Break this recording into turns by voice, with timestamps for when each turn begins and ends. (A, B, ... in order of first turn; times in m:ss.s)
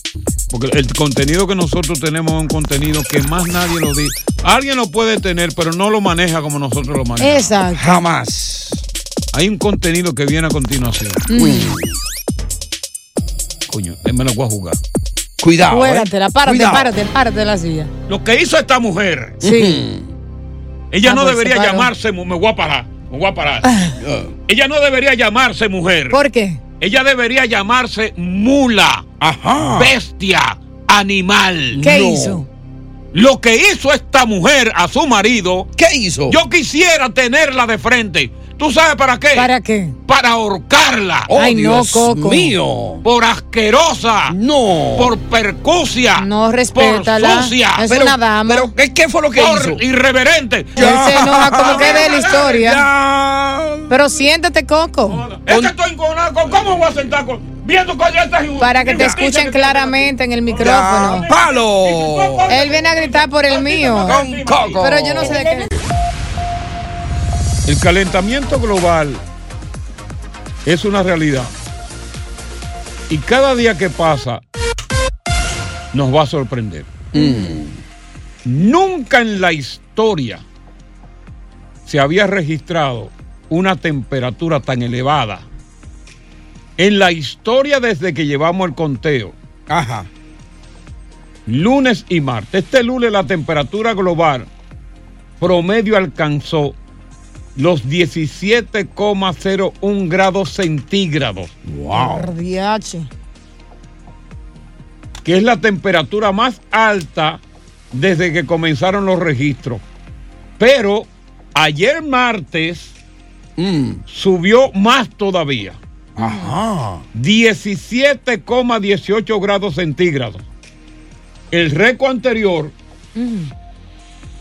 0:00.5-0:07.6 A
0:07.2-0:08.0 B
0:07.7-0:08.9 C
0:09.3-0:11.2 A
0:11.3-0:11.8 B
0:11.3-0:12.0 C
0:13.7-0:14.8 A
0:15.4-0:16.9 C
0:15.7-0:17.9 B
0:18.1-0:19.4 A
0:19.4-0:19.8 B
0:19.4-0:20.1 C
0:20.9-0:23.7 A
0:21.0-0:21.9 B
0:23.6-0:24.0 B
0:24.0-0:24.4 C
0:24.5-0:26.2 A
0:26.1-0:26.6 B
0:26.8-0:29.1 A
0:29.2-0:30.0 C
0:29.6-0:31.8 A
0:31.7-0:32.4 C
0:31.8-0:32.5 B
0:33.1-0:35.7 A
0:35.8-0:36.4 C
0:36.3-0:39.5 A
0:39.4-0:40.0 B
0:40.1-0:41.3 A
0:41.3-0:43.0 C
0:41.3-0:42.5 B
0:43.0-0:44.4 A
0:44.3-0:45.2 C
0:45.0-0:47.9 A
0:46.2-0:48.7 B
0:47.9-0:49.8 C
0:49.4-0:52.6 A
0:50.8-0:54.0 C
0:50.8-0:52.8 B
0:53.9-0:55.2 B
0:55.1-1:05.8 A
0:55.5-0:55.7 C
0:58.6-1:01.3 B
0:58.9-0:59.2 C
1:00.6-1:02.6 C
1:02.5-1:04.2 B
1:04.0-1:05.4 C
1:04.8-1:05.7 B
1:07.7-1:09.2 A
1:10.6-1:11.5 A
1:13.1-1:14.4 A
1:15.9-1:16.9 A
1:17.1-1:17.8 C
1:17.2-1:17.6 B
1:18.4-1:20.4 A
1:21.9-1:25.5 A
1:26.8-1:29.4 A
1:29.7-1:30.1 C
1:31.5-1:34.5 A
1:35.4-1:36.8 A
1:37.6-1:41.5 A
1:41.7-1:42.3 C
1:41.9-1:43.1 B
1:45.2-1:49.8 A
1:50.6-1:53.0 A
1:53.6-1:54.0 C
1:54.1-1:55.8 A
1:56.2-1:57.0 C
1:56.2-1:56.5 B
1:57.1-2:00.4 A
2:01.5-2:02.7 A
2:03.2-2:03.5 B